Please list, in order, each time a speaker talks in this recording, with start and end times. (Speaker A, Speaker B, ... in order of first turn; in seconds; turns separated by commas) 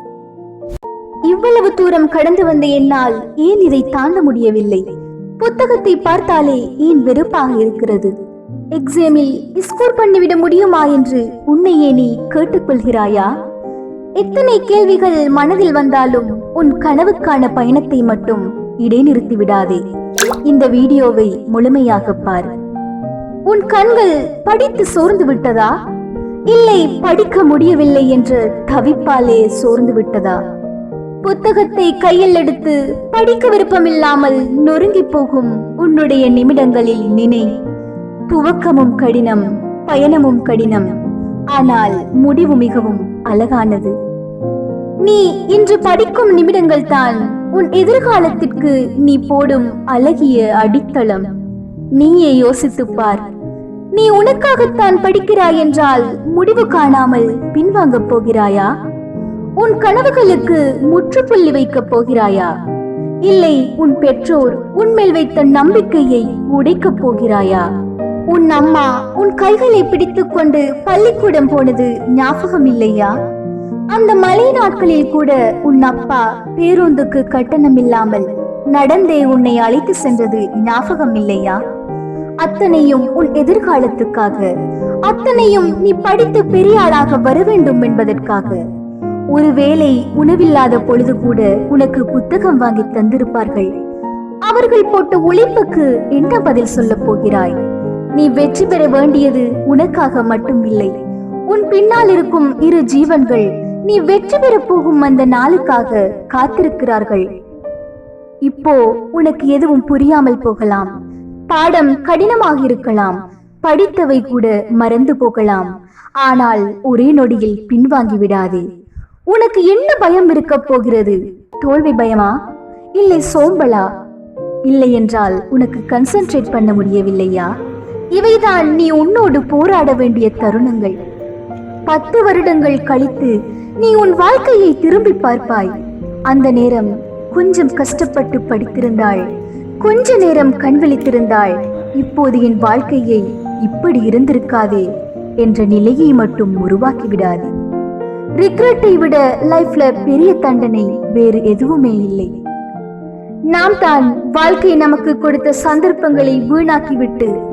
Speaker A: 1.2-4.8, Speaker A: 5.4-8.1, Speaker A: 8.7-13.3, Speaker A: 14.2-19.8, Speaker A: 20.4-22.5, Speaker A: 23.4-25.7, Speaker A: 26.5-30.4, Speaker A: 31.2-37.5, Speaker A: 38.3-40.9, Speaker A: 41.5-43.9, Speaker A: 45.0-51.3, Speaker A: 51.9-53.3, Speaker A: 53.9-58.7, Speaker A: 59.6-62.5, Speaker A: 63.2-67.7, Speaker A: 68.3-73.1, Speaker A: 73.9-81.6, Speaker A: 82.4-84.5, Speaker A: 85.0-88.6, Speaker A: 89.3-93.7, Speaker A: 94.4-97.6, Speaker A: 98.1-100.9, Speaker A: 101.5-107.3, Speaker A: 108.4-110.9, Speaker A: 111.5-118.6, Speaker A: 119.3-122.4, Speaker A: 122.9-123.9, Speaker A: 124.7-127.5, Speaker A: 128.1-131.0, Speaker A: 131.8-135.7, Speaker A: 136.3-139.3, Speaker A: 139.8-144.9, Speaker A: 145.4-147.5, Speaker A: 148.4-152.3, Speaker A: 153.5-157.3